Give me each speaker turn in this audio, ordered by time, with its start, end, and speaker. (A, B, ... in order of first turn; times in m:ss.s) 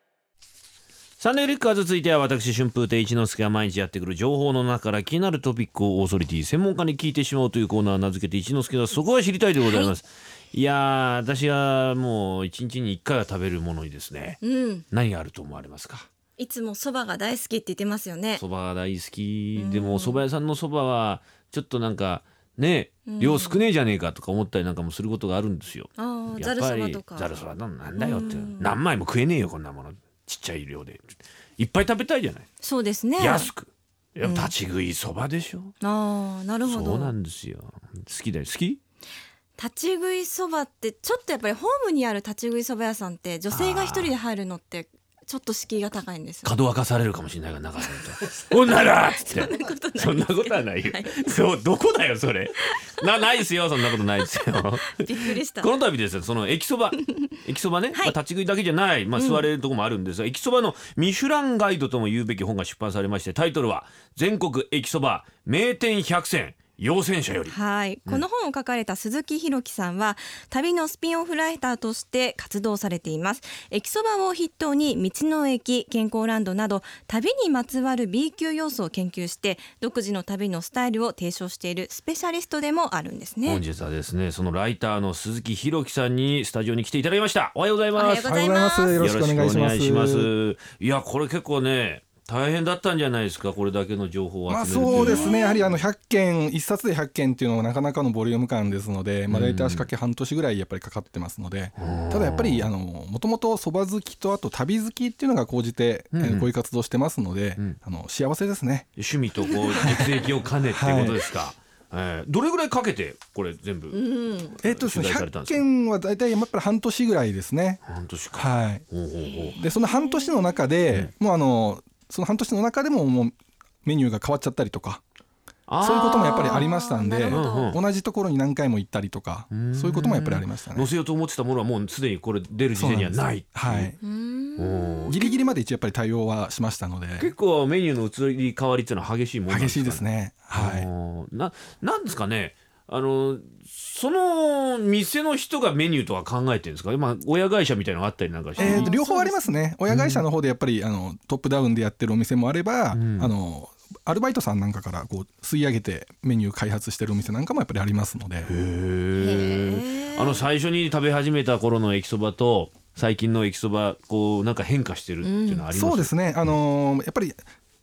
0:01.2-0:14.4 A
0:09.6-0:09.9 B
0:14.4-0:14.8 B
0:14.9-0:16.1 A
0:16.4-0:18.4 B
0:18.4-0:31.0 A
0:19.6-0:20.2 B
0:23.0-0:23.6 B
0:26.0-0:27.3 B
0:28.0-0:28.8 B
0:31.6-0:32.4 A
0:32.6-0:33.5 B
0:33.2-0:35.7 A
0:34.2-0:34.5 B
0:35.8-0:37.1 B
0:36.6-0:38.8 A
0:39.6-0:46.5 B
0:43.5-0:44.1 A
0:46.4-1:08.2 A
0:48.9-0:51.2 B
0:52.6-0:53.0 B
0:54.8-0:55.7 B
0:57.0-0:57.3 B
0:59.2-0:59.4 B
1:07.5-1:23.6 B
1:23.4-1:28.3 A
1:28.0-1:29.0 B
1:28.2-1:30.3 C
1:28.9-1:35.4 A
1:34.5-1:48.9 C
1:34.8-1:35.6 B
1:39.3-1:39.9 A
1:41.8-1:42.7 A
1:46.1-1:46.5 A
1:49.0-1:55.7 A
1:49.8-1:50.0 C
1:50.6-1:51.3 C
1:53.9-1:54.6 B
1:54.6-1:57.8 C
1:57.8-1:59.6 A
1:58.3-1:58.8 C
1:59.2-2:00.7 B
1:59.5-2:05.0 C
2:05.7-2:06.6 A
2:05.8-2:10.9 C
2:05.8-2:07.8 B
2:07.3-2:07.8 A
2:09.5-2:13.9 A
2:12.7-2:14.0 C
2:14.0-2:15.5 B
2:14.6-2:15.2 A
2:15.1-2:17.3 C
2:17.2-2:28.9 A
2:19.5-2:20.9 C
2:28.6-2:29.6 B
2:28.6-2:38.5 C
2:29.9-2:30.2 A
2:32.9-2:33.3 A
2:38.4-2:46.2 A
2:39.2-2:40.4 B
2:45.2-2:45.6 B
2:45.7-2:47.4 C